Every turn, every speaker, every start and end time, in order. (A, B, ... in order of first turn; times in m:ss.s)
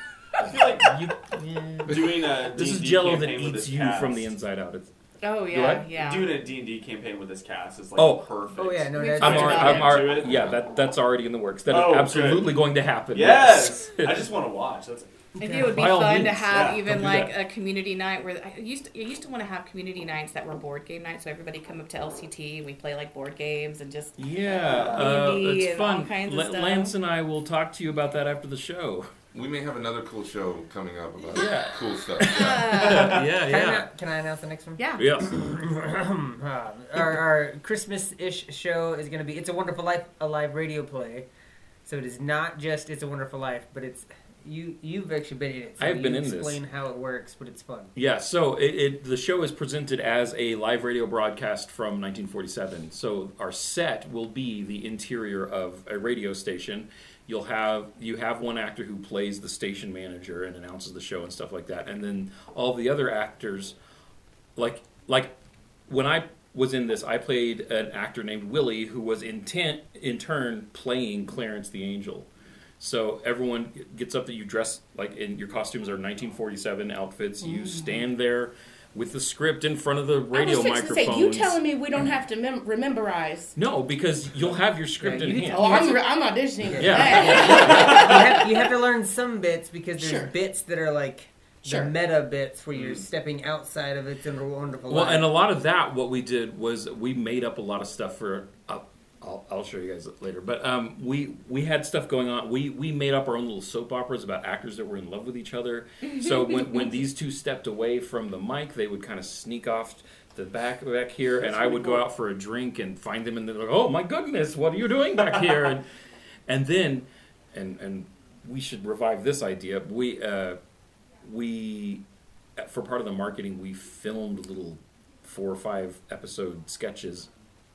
0:00.4-0:01.0 A
0:00.4-0:01.1 B
0:00.9-0:01.9 C
0:01.8-0:04.9 B
0:01.9-0:04.3 A
0:05.2-0:06.5 D
0:05.5-0:05.9 B
0:05.9-0:10.5 A
0:08.0-0:08.3 B
0:08.5-0:10.2 C
0:09.0-0:10.2 D
0:09.2-0:14.3 B
0:11.7-0:12.6 A
0:13.1-0:15.1 A
0:15.4-0:15.8 C
0:15.4-0:27.0 D
0:15.7-0:17.4 B
0:16.5-0:16.8 A
0:24.2-0:29.1 B
0:24.7-0:25.1 C
0:29.3-0:32.9 E
0:31.3-0:33.9 B
0:32.2-0:33.2 D
0:33.2-0:41.3 C
0:34.8-0:35.1 D
0:35.0-0:35.4 B
0:41.8-0:47.9 C
0:45.8-0:46.6 B
0:47.9-1:03.8 B
1:04.6-1:05.3 B
1:05.9-1:12.3 B
1:12.8-1:21.6 B
1:17.4-1:18.0 F
1:20.3-1:23.6 F
1:23.6-1:26.0 B
1:25.0-1:25.9 C
1:25.4-1:28.4 F
1:26.7-1:35.4 C
1:26.8-1:28.1 B
1:30.0-1:30.3 F
1:31.6-1:31.9 F
1:32.7-1:33.0 A
1:34.9-1:55.9 B
1:51.4-1:52.0 C
1:56.5-2:00.6 B
2:01.2-2:02.0 B
2:02.6-2:07.3 B